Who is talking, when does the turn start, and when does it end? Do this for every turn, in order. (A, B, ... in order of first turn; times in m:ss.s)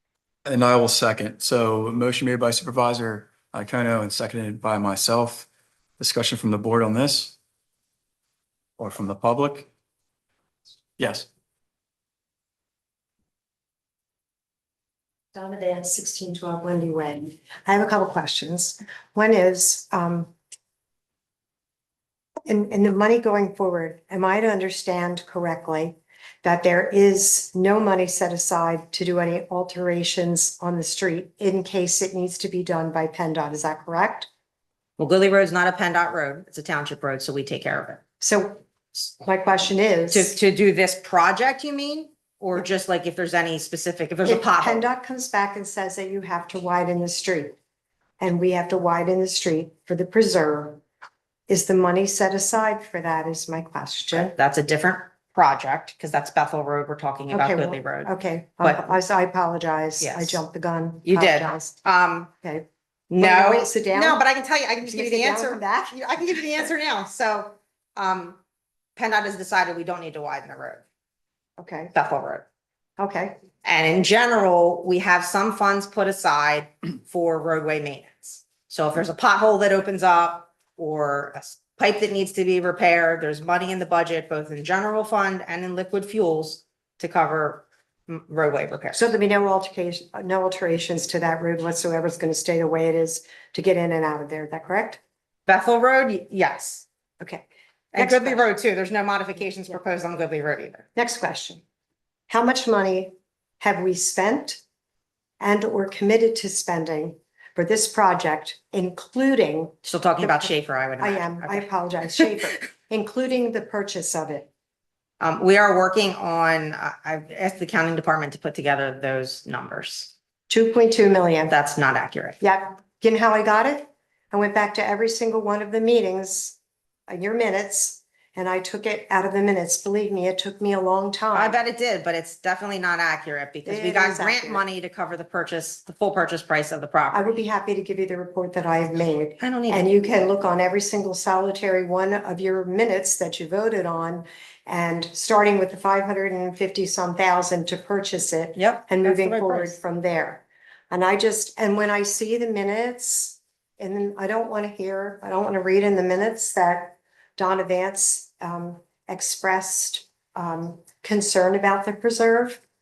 0:00.4-0:05.5 A
0:06.0-0:07.3 A
0:08.8-0:09.7 A
0:11.0-0:11.3 A
0:15.3-0:20.3 B
0:22.5-0:34.3 B
0:35.0-0:38.0 C
0:38.2-0:40.3 B
0:40.1-0:44.8 C
0:44.2-0:47.5 B
0:48.2-0:50.8 B
0:51.5-0:54.3 B
0:54.1-0:59.0 C
0:57.3-1:01.8 B
1:00.0-1:00.4 C
1:01.0-1:02.3 C
1:03.1-1:08.4 C
1:03.2-1:04.2 B
1:04.8-1:06.0 B
1:09.0-1:10.8 C
1:11.6-1:11.9 B
1:11.9-1:12.5 C
1:13.0-1:13.4 B
1:13.6-1:29.1 C
1:28.9-1:35.0 B
1:35.5-1:36.8 C
1:37.2-1:38.5 B
1:37.9-1:40.8 C
1:41.0-1:41.6 B
1:42.3-1:44.6 B
1:45.4-1:54.5 B
1:49.8-1:52.3 C
1:55.2-2:00.1 C
2:00.5-2:01.5 B
2:01.5-2:02.4 C
2:02.4-2:06.6 B
2:07.1-2:11.6 B
2:11.3-2:17.3 C
2:13.6-2:14.6 B
2:17.1-2:42.6 B
2:19.4-2:19.9 C
2:28.6-2:29.8 C